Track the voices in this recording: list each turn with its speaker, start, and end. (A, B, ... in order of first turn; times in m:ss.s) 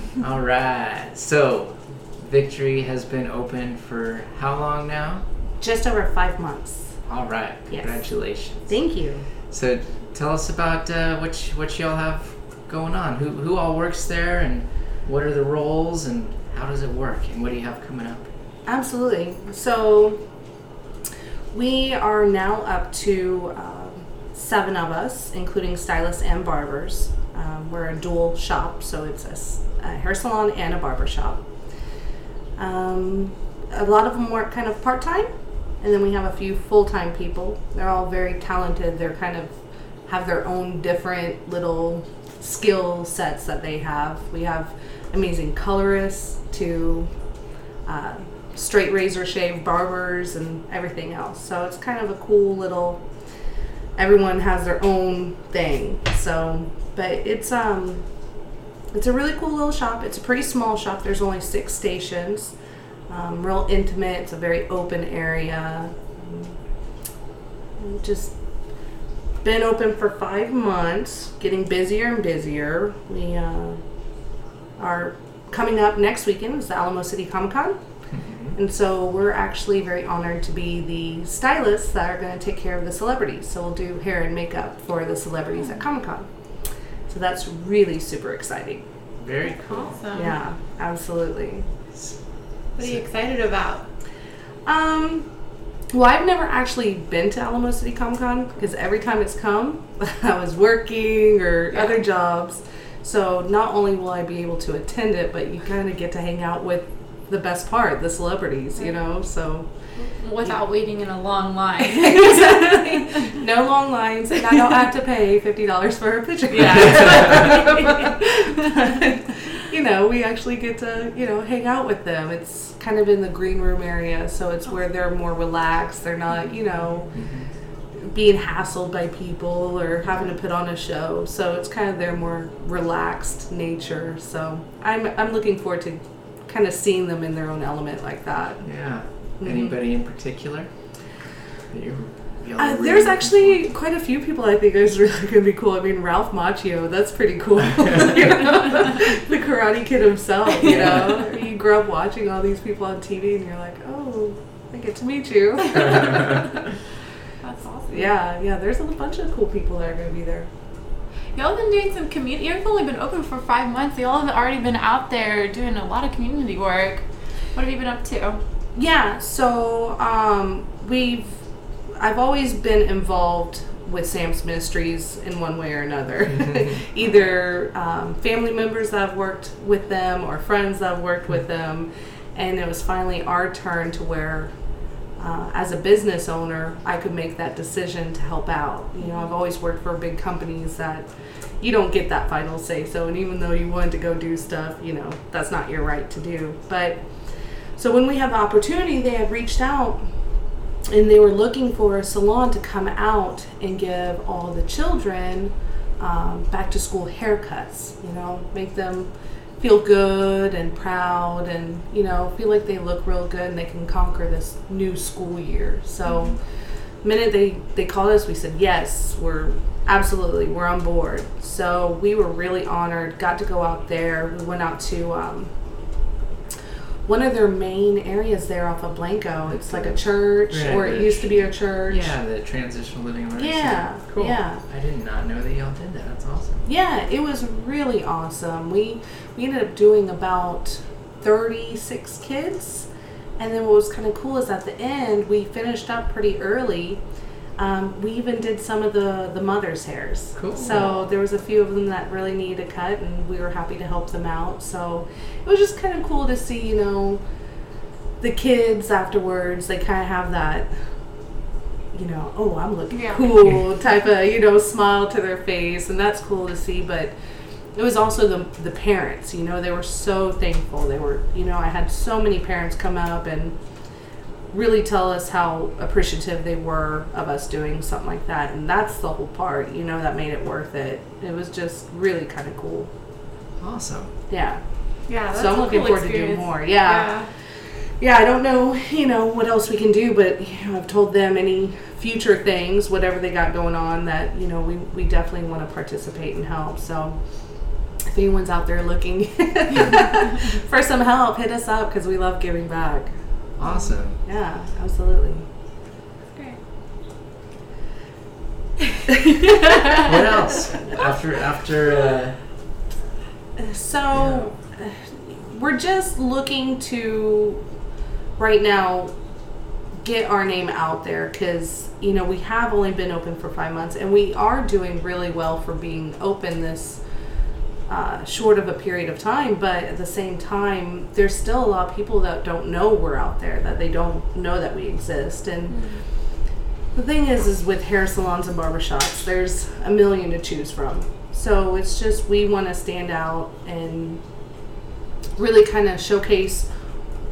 0:00.2-0:05.2 A
0:05.6-0:07.0 B
0:07.1-0:08.6 A
0:07.7-0:08.0 B
0:08.7-0:09.3 B
0:09.5-0:18.3 A
0:18.7-0:20.2 B
0:21.5-0:31.4 B
0:32.6-0:39.5 B
0:40.1-0:47.1 B
0:47.9-0:53.0 B
0:54.0-0:58.0 B
0:58.9-1:02.5 B
1:03.1-1:06.6 B
1:07.8-1:08.4 B
1:09.4-1:13.8 B
1:14.8-1:17.8 B
1:18.1-1:18.5 A
1:18.6-1:26.3 B
1:27.1-1:28.8 B
1:29.2-1:30.0 A
1:29.6-1:30.4 C
1:30.1-1:31.7 B
1:32.8-1:33.8 C
1:34.7-1:35.3 B
1:35.9-1:49.7 B
1:50.2-1:53.4 C
1:51.9-2:07.1 B
1:56.5-1:59.0 C
2:07.1-2:07.5 A
2:08.0-2:18.6 B
2:18.6-2:20.7 A
2:19.4-2:19.8 B
2:21.7-2:23.6 A
2:22.6-2:36.6 B
2:27.8-2:28.1 A
2:30.6-2:31.2 A
2:37.4-2:38.1 C
2:37.9-2:40.5 B
2:41.4-2:48.4 C
2:48.8-2:51.4 B
2:52.0-3:04.5 B
3:05.2-3:11.1 B
3:11.6-3:17.0 B
3:17.8-3:20.0 B
3:20.9-3:36.4 B
3:36.1-3:36.3 C
3:37.0-3:45.5 B
3:47.1-3:52.2 B
3:50.5-3:56.7 A
3:53.4-3:54.6 B
3:56.7-4:02.9 B
4:03.4-4:07.0 B
4:07.6-4:17.2 B
4:10.4-4:10.9 A
4:18.2-4:20.7 B
4:21.9-4:27.1 B
4:22.9-4:23.3 C
4:27.8-4:33.6 B
4:34.5-4:42.9 B
4:43.6-4:44.1 A
4:44.3-4:44.6 B
4:45.1-4:47.3 C
4:45.3-4:47.1 B
4:48.0-4:57.2 B
4:58.1-5:03.1 B
5:03.6-5:04.2 A
5:03.6-5:03.9 C
5:04.2-5:05.5 B
5:09.9-5:12.4 A
5:13.6-5:17.6 B
5:14.1-5:14.5 A
5:18.4-5:19.1 B
5:20.0-5:27.0 B
5:27.9-5:35.8 B
5:35.7-5:36.0 C
5:37.0-5:44.2 B
5:45.4-5:46.7 B